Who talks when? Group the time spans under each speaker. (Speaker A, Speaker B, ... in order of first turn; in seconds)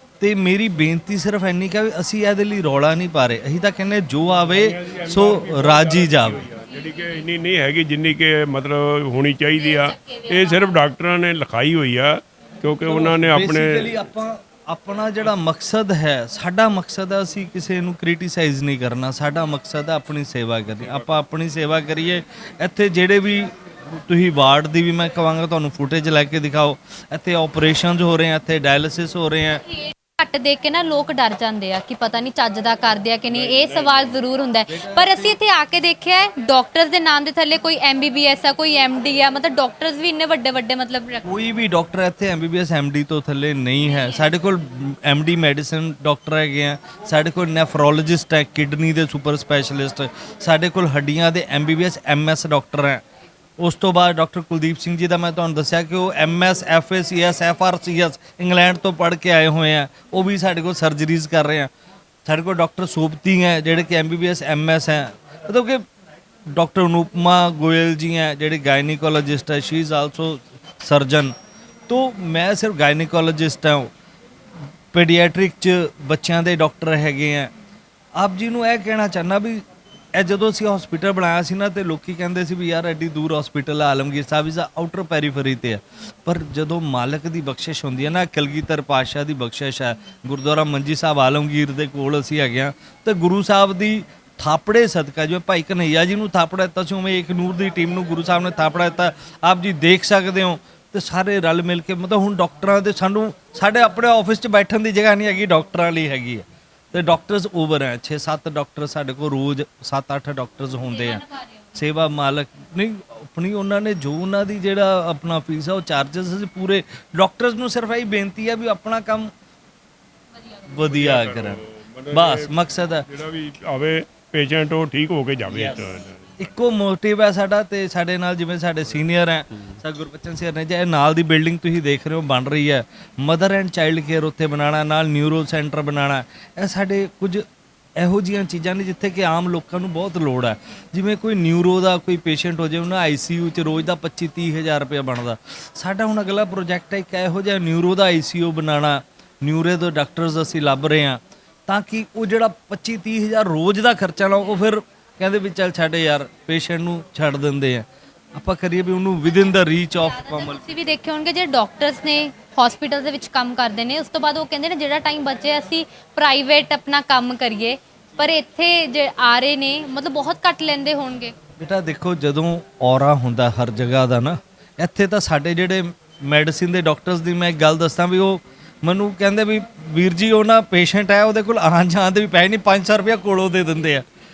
Speaker A: 0.2-6.4, 12.9-29.6, 34.7-35.3, 41.2-53.0, 53.6-61.7, 62.2-65.8, 66.5-71.3, 71.9-73.9, 74.9-77.5, 78.2-119.3, 120.7-121.6, 122.1-123.0, 126.4-137.4, 138.0-160.6, 171.6-184.0
Speaker B: 4.5-13.9, 33.3-34.2, 120.8-126.4
Speaker C: 9.6-10.8, 29.7-41.3, 160.0-171.3